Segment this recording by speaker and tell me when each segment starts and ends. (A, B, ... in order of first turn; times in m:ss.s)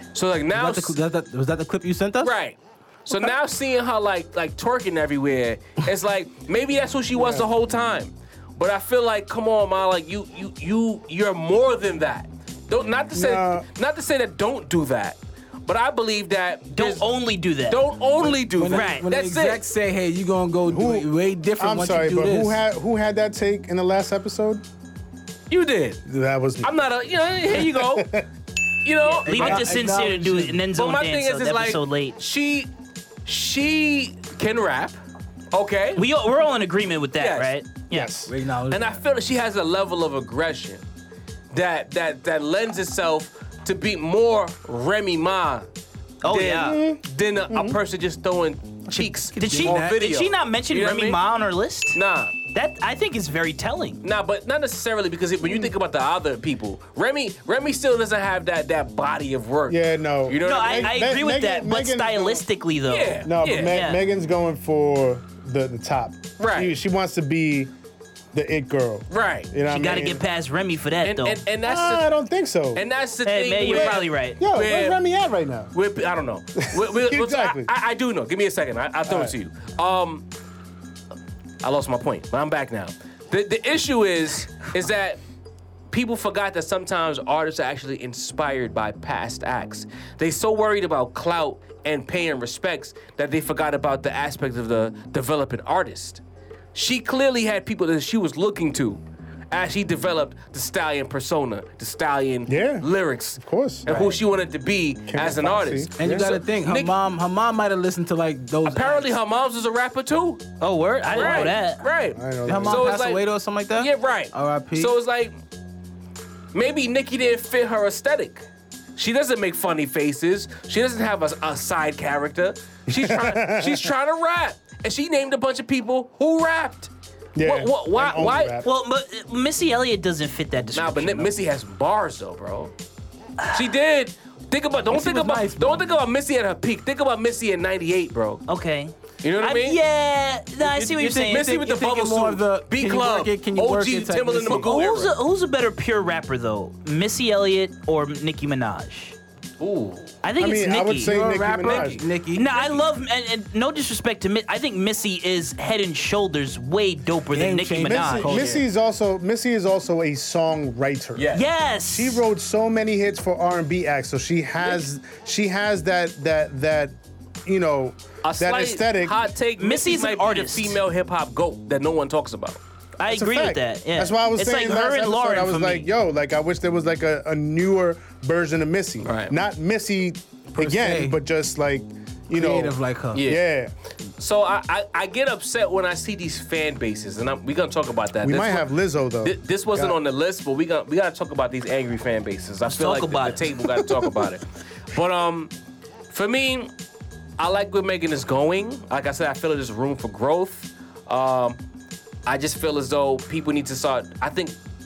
0:00.1-0:01.0 A
0:00.5-0:02.3 B
0:02.2-0:02.6 A
0:03.1-0:17.0 A
0:07.2-0:07.4 C
0:13.1-0:13.7 C
0:16.7-0:17.8 D
0:17.7-0:19.6 A
0:18.5-0:22.6 B
0:18.7-0:19.1 D
0:20.6-0:24.6 C
0:25.5-0:26.0 A
0:26.0-0:26.7 C
0:26.6-0:28.2 A
0:27.4-0:28.3 C
0:28.8-0:29.8 A
0:29.2-0:30.6 B
0:29.2-0:32.2 D
0:30.7-0:32.7 A
0:33.2-0:34.9 A
0:35.5-0:36.0 A
0:36.0-0:38.1 D
0:37.2-0:37.5 A
0:37.9-0:38.3 C
0:38.2-0:38.9 B
0:38.7-0:40.8 A
0:41.5-0:45.7 A
0:46.2-0:46.8 D
0:46.3-0:51.2 A
0:46.5-0:47.8 C
0:48.9-0:50.0 B
0:49.2-0:52.0 D
0:51.9-0:52.3 A
0:52.5-0:54.0 D
0:54.0-1:01.0 A
0:55.4-0:55.7 C
0:59.7-1:02.4 C
1:00.4-1:04.0 D
1:02.9-1:03.8 A
1:03.2-1:07.7 C
1:06.4-1:06.8 A
1:08.3-1:10.2 C
1:09.1-1:09.5 A
1:09.6-1:11.4 D
1:11.0-1:12.1 A
1:11.6-1:12.8 C
1:12.7-1:15.0 A
1:13.2-1:14.4 D
1:13.6-1:15.7 C
1:15.7-1:20.2 A
1:16.6-1:17.7 C
1:19.0-1:19.3 C
1:21.6-1:25.2 A
1:25.9-1:36.2 A
1:36.7-1:46.9 A
1:42.5-1:43.9 C
1:43.9-1:44.2 D
1:45.1-1:46.3 C
1:46.0-1:49.2 B
1:48.6-1:50.4 A
1:50.6-1:51.8 D
1:51.1-1:53.2 A
1:52.1-1:52.9 C
1:52.5-1:54.9 B
1:53.8-1:55.3 A
1:56.5-2:06.9 A
2:02.9-2:03.9 C
2:07.3-2:08.7 C
2:07.4-2:08.6 A
2:08.6-2:11.3 D
2:10.7-2:12.7 A
2:13.5-2:18.4 A
2:14.9-2:15.8 B
2:18.5-2:21.5 D
2:19.2-2:19.8 A
2:20.6-2:24.7 B
2:21.2-2:25.1 A
2:24.5-2:29.2 D
2:29.6-2:30.1 A
2:30.2-2:31.2 D
2:30.4-2:32.0 C
2:30.9-2:32.8 B
2:31.6-2:31.9 A
2:32.3-2:38.3 D
2:37.3-2:38.6 B
2:37.8-2:41.3 C
2:38.2-2:38.6 A
2:41.2-2:41.4 A
2:41.3-2:42.2 D
2:41.9-2:49.2 C
2:48.2-2:52.6 A
2:49.6-2:50.8 D
2:53.0-2:55.9 D
2:53.1-3:03.7 C
2:59.0-2:59.3 A
3:00.6-3:01.2 B
3:02.3-3:03.2 B
3:03.1-3:03.4 A
3:04.2-3:08.7 A
3:08.2-3:10.0 C
3:09.2-3:15.5 A
3:12.6-3:13.4 D
3:16.1-3:16.7 A
3:17.4-3:21.6 A
3:22.2-3:24.6 A